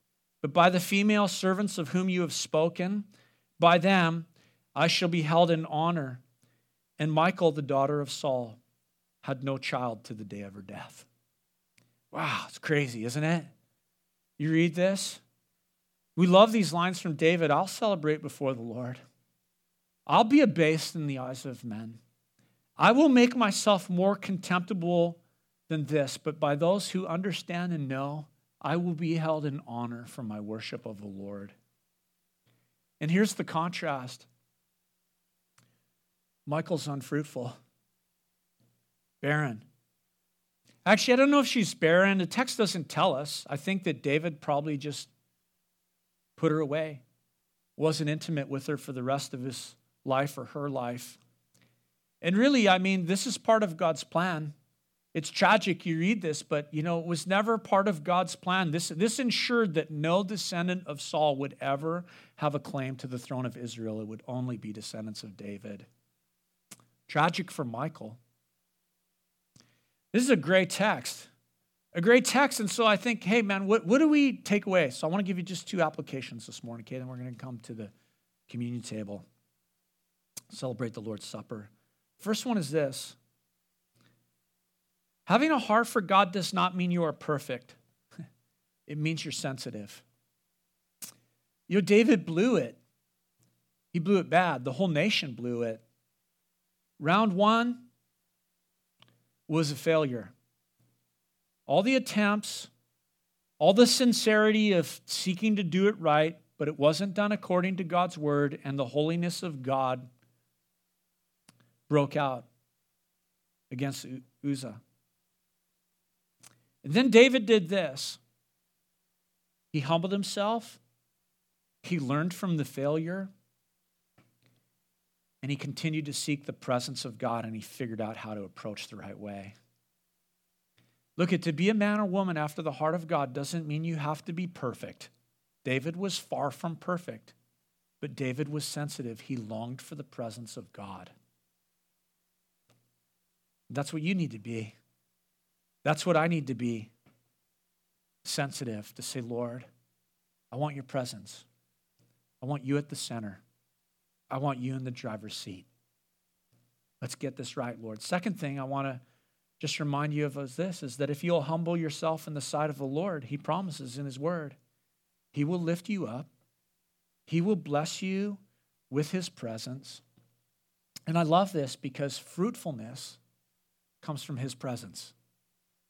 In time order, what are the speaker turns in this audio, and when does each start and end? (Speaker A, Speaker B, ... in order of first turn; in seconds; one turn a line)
Speaker A: 0.4-3.1
Speaker A: 3.6-6.2
Speaker A: 7.0-8.6
Speaker A: 9.2-11.1
Speaker A: 12.1-13.5
Speaker A: 14.4-15.2
Speaker A: 16.1-19.0
Speaker A: 20.1-22.0
Speaker A: 22.8-31.5
Speaker A: 33.0-34.3
Speaker A: 36.5-37.6
Speaker A: 39.2-39.6
Speaker A: 40.8-45.1
Speaker A: 46.4-47.0
Speaker A: 47.8-51.2
Speaker A: 52.2-54.5
Speaker A: 55.1-65.9
Speaker A: 67.1-68.2
Speaker A: 70.1-71.3
Speaker A: 71.9-77.9
Speaker A: 78.5-79.2
Speaker A: 80.5-83.2
Speaker A: 85.2-87.8
Speaker A: 88.9-90.0
Speaker A: 91.7-92.8
Speaker A: 93.9-95.8
Speaker A: 97.0-97.9
Speaker A: 99.5-100.3
Speaker A: 101.7-102.7
Speaker A: 103.6-110.1
Speaker A: 111.9-112.5
Speaker A: 113.7-114.8
Speaker A: 116.8-118.2
Speaker A: 119.7-120.8
Speaker A: 121.8-123.3
Speaker A: 125.4-129.5
Speaker A: 131.2-135.1
Speaker A: 135.6-137.3
Speaker A: 138.0-141.1
Speaker A: 143.7-144.7
Speaker A: 145.8-146.9
Speaker A: 148.2-149.7
Speaker A: 150.5-151.4
Speaker A: 152.4-153.4
Speaker A: 154.3-155.7
Speaker A: 157.0-159.0
Speaker A: 159.6-164.6
Speaker A: 165.3-166.3
Speaker A: 167.3-170.0
Speaker A: 171.1-173.2
Speaker A: 174.0-175.1